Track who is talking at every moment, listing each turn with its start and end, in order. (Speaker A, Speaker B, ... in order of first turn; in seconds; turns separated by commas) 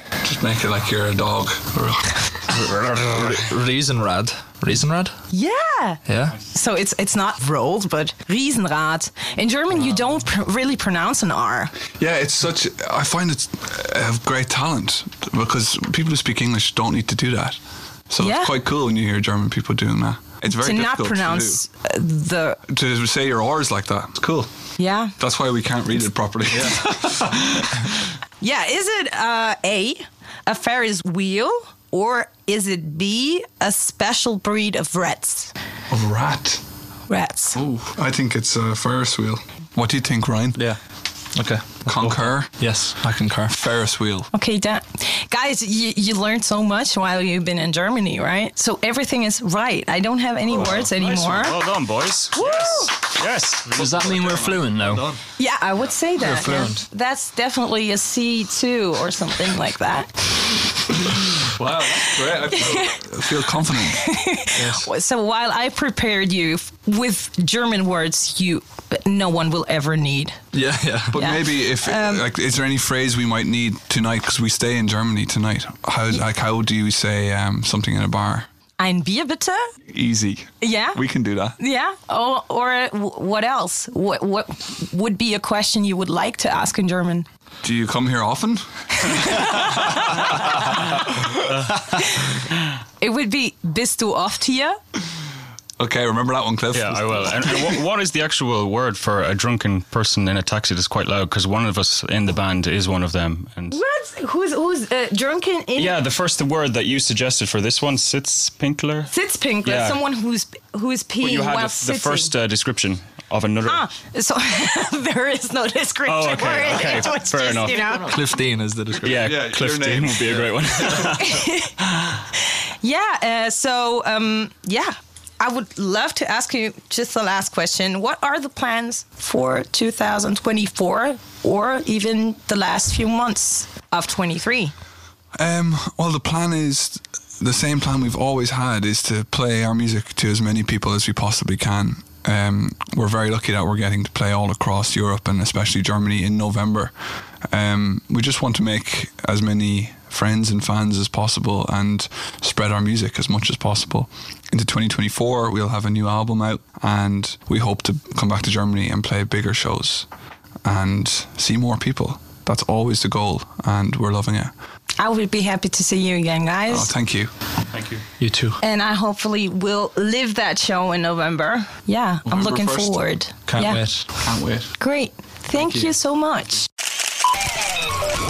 Speaker A: 0.2-2.2, Speaker B: 2.5-5.1, Speaker C: 5.3-11.8, Speaker B: 6.1-6.4, Speaker A: 12.0-21.6, Speaker C: 18.2-18.5, Speaker C: 20.4-22.6, Speaker A: 22.7-24.2, Speaker B: 24.1-24.5, Speaker C: 24.8-25.2, Speaker A: 25.2-27.9, Speaker B: 26.5-26.9, Speaker C: 28.4-35.5, Speaker A: 35.9-36.6, Speaker C: 37.1-37.6, Speaker A: 37.8-40.6, Speaker B: 41.4-43.6, Speaker A: 41.9-42.6, Speaker A: 43.5-44.3, Speaker C: 44.3-51.6, Speaker D: 50.5-54.7, Speaker C: 52.4-52.9, Speaker E: 53.7-55.2, Speaker C: 55.4-60.2, Speaker E: 56.2-56.9, Speaker A: 61.4-64.0, Speaker C: 61.8-70.4, Speaker B: 64.6-64.9, Speaker B: 70.5-71.3, Speaker A: 71.1-78.5, Speaker C: 71.1-72.2, Speaker C: 78.8-79.6, Speaker A: 79.9-81.6, Speaker C: 80.6-81.0, Speaker C: 81.6-87.3, Speaker A: 87.6-89.8, Speaker C: 89.0-90.1, Speaker C: 91.8-92.4, Speaker C: 93.0-94.8, Speaker A: 95.8-97.7, Speaker D: 96.7-103.8, Speaker C: 103.7-106.0, Speaker D: 105.8-109.1, Speaker C: 109.1-112.3, Speaker D: 109.6-110.0, Speaker D: 111.2-113.9, Speaker C: 113.7-118.2, Speaker D: 116.0-117.8, Speaker E: 117.8-118.2, Speaker B: 117.9-119.9, Speaker D: 119.0-121.5, Speaker A: 119.1-120.5, Speaker C: 121.0-121.8, Speaker C: 122.3-134.7, Speaker A: 135.4-146.9, Speaker A: 147.5-160.1, Speaker A: 160.6-164.5, Speaker C: 165.0-166.9, Speaker A: 166.7-167.3, Speaker D: 167.7-168.0, Speaker B: 168.2-168.6, Speaker C: 168.6-173.8, Speaker A: 172.3-173.0, Speaker B: 173.5-174.1, Speaker A: 174.2-174.7, Speaker C: 174.8-176.7, Speaker A: 175.6-175.9